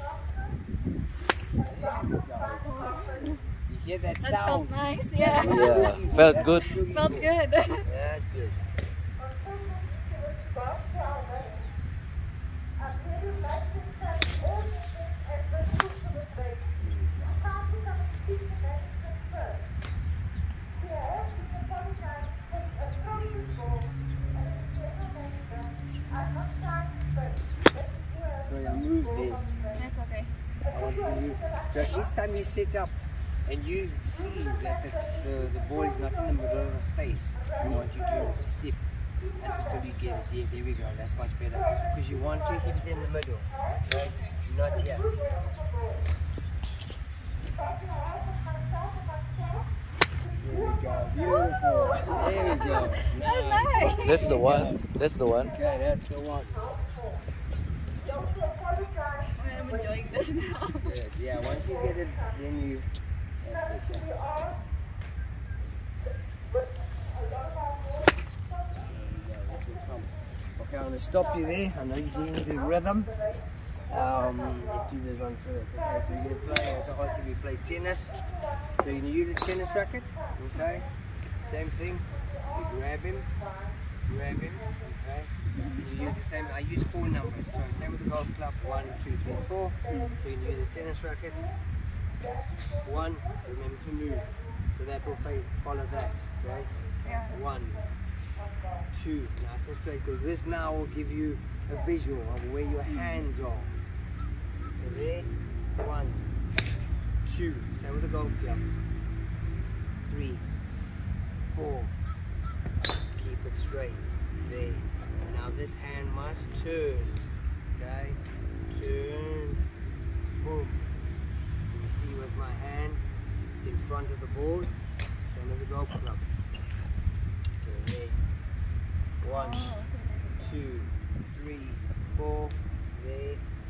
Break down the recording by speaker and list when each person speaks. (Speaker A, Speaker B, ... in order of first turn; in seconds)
Speaker A: 1.6-2.8, 3.6-8.6, 16.8-17.5, 28.4-29.4, 30.7-32.9, 33.4-38.8, 39.4-45.1, 50.4-54.8, 55.5-56.6, 60.8-62.9, 63.4-64.1, 68.8-78.1, 78.8-80.9, 81.4-83.3, 84.1-91.4, 92.8-97.8, 98.9-103.8, 104.8-106.2, 107.2-108.6, 110.0-110.4, 111.4-111.9, 113.1-117.2, 117.7-119.6, 120.4-120.9, 121.7-123.0, 123.6-126.2, 127.6-128.2, 129.2-129.7, 130.4-133.4
Speaker B: 2.5-3.4, 4.2-7.9, 29.7-30.3, 43.9-44.4, 51.9-54.4, 59.4-60.9, 85.5-85.8, 89.9-90.2, 97.0-97.3, 129.3-130.6
Speaker C: 5.4-6.8, 54.0-55.5